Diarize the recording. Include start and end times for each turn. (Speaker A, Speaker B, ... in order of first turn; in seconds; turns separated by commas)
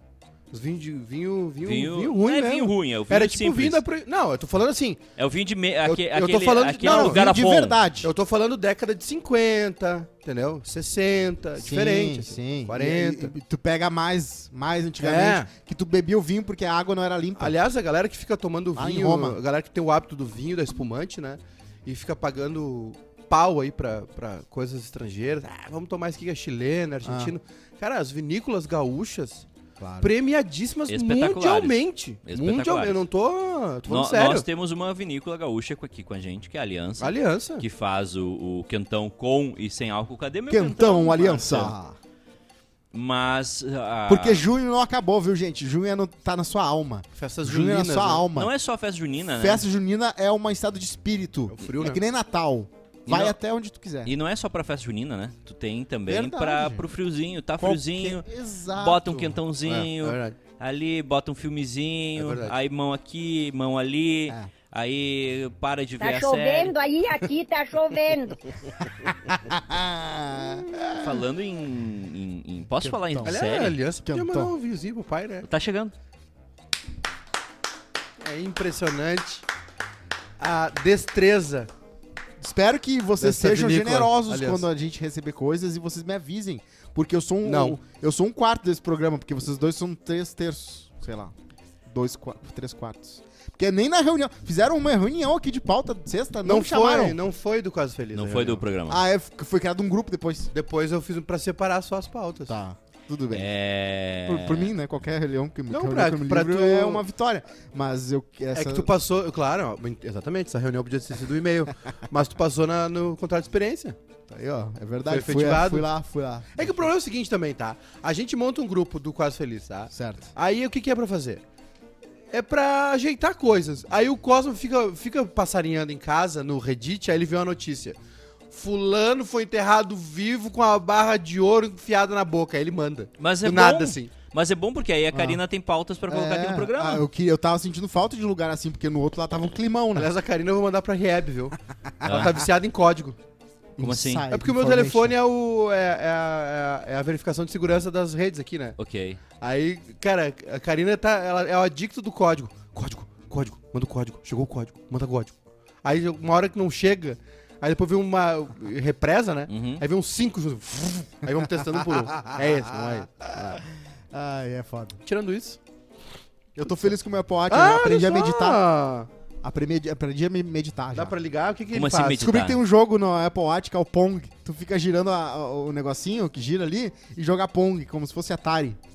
Speaker A: 0.5-5.0, Speaker B: 1.6-3.8, Speaker B: 5.2-7.8, Speaker A: 5.8-7.3, Speaker C: 6.8-8.1, Speaker A: 8.0-13.3, Speaker C: 11.6-17.6, Speaker A: 15.0-15.5, Speaker A: 17.4-29.5, Speaker C: 18.8-19.4, Speaker C: 27.1-27.3, Speaker C: 29.8-30.1, Speaker A: 30.0-34.5, Speaker B: 30.9-33.0, Speaker B: 33.9-41.7, Speaker A: 37.0-37.7, Speaker C: 40.5-42.0, Speaker B: 42.9-44.5, Speaker C: 44.1-48.5, Speaker A: 47.2-48.3, Speaker B: 48.4-49.6, Speaker C: 49.4-54.1, Speaker A: 51.5-52.0, Speaker B: 53.1-53.4, Speaker B: 54.0-66.8, Speaker C: 56.1-56.9, Speaker C: 57.6-59.4, Speaker A: 59.7-60.4, Speaker A: 62.2-62.6, Speaker D: 66.0-68.4, Speaker C: 69.0-70.7, Speaker B: 71.0-73.8, Speaker C: 72.8-73.4, Speaker A: 73.2-75.5, Speaker C: 74.1-74.5, Speaker B: 75.4-75.9, Speaker A: 78.2-79.4, Speaker A: 80.4-81.7, Speaker C: 82.4-91.3, Speaker A: 83.2-84.7, Speaker A: 87.4-87.8, Speaker C: 91.9-97.2, Speaker A: 96.5-98.6, Speaker B: 98.1-99.0, Speaker C: 98.9-100.5, Speaker A: 100.5-102.5, Speaker C: 102.5-103.5, Speaker B: 103.3-104.7, Speaker C: 104.3-108.9, Speaker A: 105.7-107.0, Speaker A: 108.5-114.0, Speaker C: 114.3-116.9, Speaker A: 115.1-115.9, Speaker A: 116.5-121.4, Speaker C: 119.9-120.3, Speaker A: 122.3-128.0, Speaker A: 128.5-134.1, Speaker B: 133.2-137.0, Speaker C: 135.1-135.4, Speaker C: 136.1-140.1, Speaker A: 139.9-143.2, Speaker B: 142.0-142.4, Speaker A: 143.8-148.8, Speaker B: 143.8-144.3, Speaker C: 143.8-145.2, Speaker B: 148.8-149.2, Speaker A: 149.4-155.3, Speaker A: 155.8-163.6, Speaker B: 159.5-159.8, Speaker C: 161.8-163.6, Speaker C: 164.1-165.0, Speaker A: 165.1-165.6, Speaker C: 166.6-168.7, Speaker A: 167.5-169.1, Speaker C: 169.4-171.2, Speaker A: 170.9-172.3, Speaker B: 171.7-172.6, Speaker C: 172.2-178.8